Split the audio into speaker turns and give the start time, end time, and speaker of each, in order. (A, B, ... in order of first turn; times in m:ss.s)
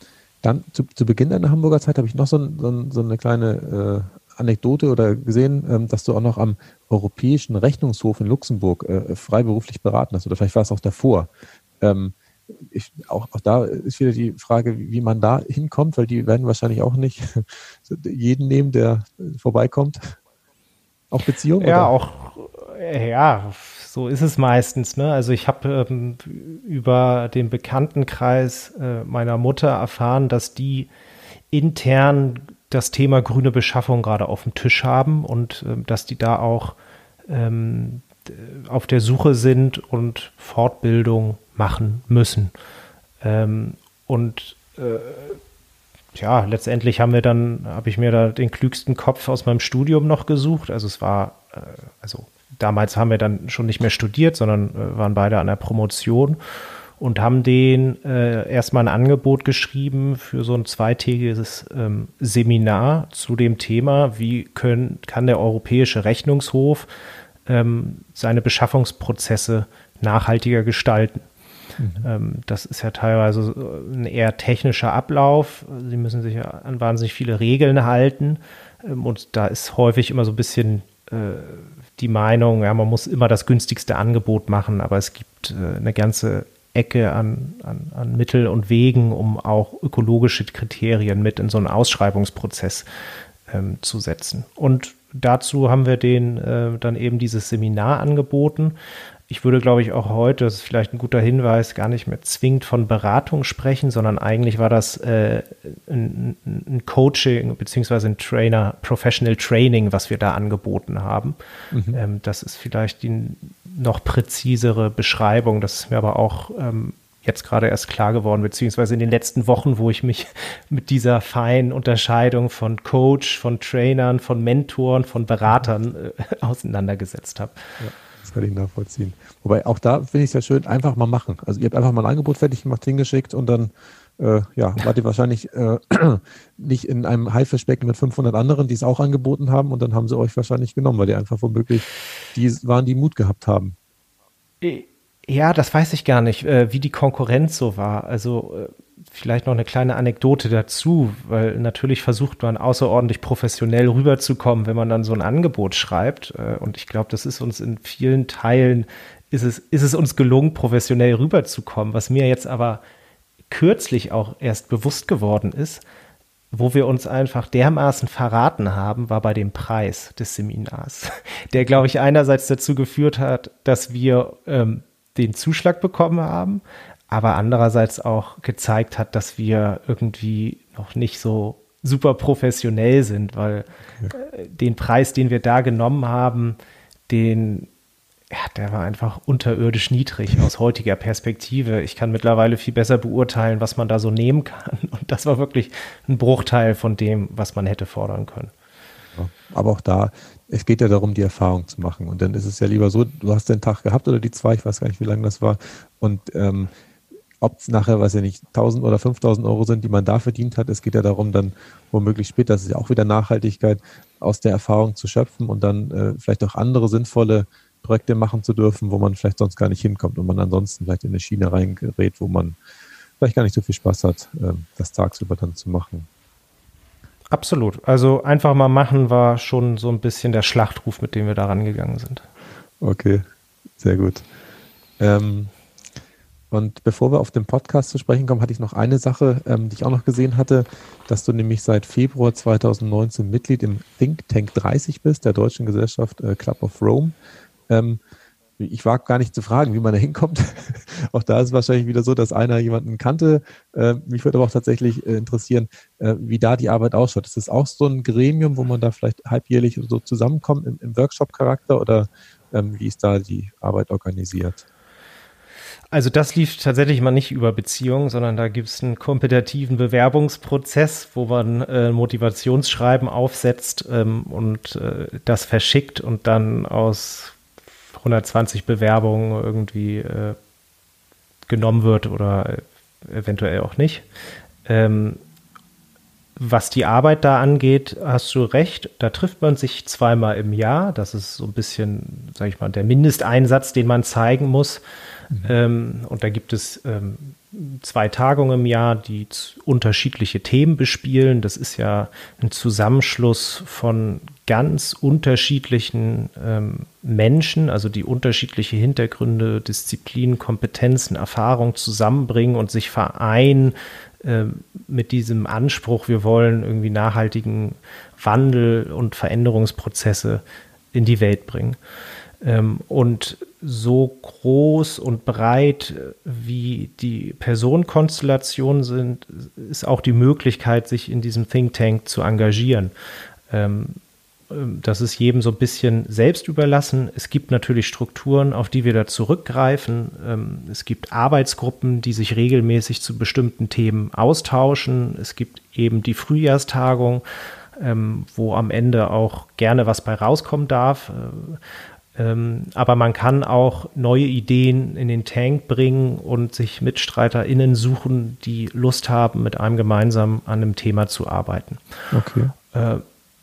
0:00.4-0:11.3 A
0:11.8-0:20.2 A
0:21.1-0:21.9 A
0:21.6-0:30.9 B
0:31.5-0:36.8 B
0:37.3-0:42.5 B
0:43.2-0:45.4 B
0:46.2-0:56.4 B
0:57.0-1:06.9 B
1:07.5-1:11.2 B
1:11.8-1:12.1 A
1:12.0-1:32.9 B
1:33.5-1:38.8 B
1:39.3-1:51.4 B
1:51.7-1:52.0 A
1:51.9-2:07.6 B
2:07.8-2:23.8 A
2:24.6-2:42.8 B
2:43.5-2:45.8 B
2:46.5-3:06.6 B
3:07.1-3:07.7 B
3:08.3-3:18.5 B
3:19.1-3:26.7 A
3:27.4-3:42.6 A
3:43.2-3:46.1 A
3:47.3-3:52.2 B
3:52.8-3:53.2 A
3:53.8-3:54.2 A
3:55.0-3:55.5 A
3:56.5-4:07.1 A
4:07.7-4:08.0 A
4:08.6-4:24.6 A
4:25.9-4:37.4 B
4:37.9-4:40.4 B
4:41.5-4:44.0 B
4:44.6-4:45.2 B
4:46.4-4:54.8 B
4:55.4-5:21.8 B
5:22.4-5:32.9 B
5:33.5-5:34.0 B
5:34.5-5:47.2 B
5:47.8-5:51.6 B
5:52.1-6:01.8 B
6:02.1-6:02.5 A
6:02.7-6:03.0 B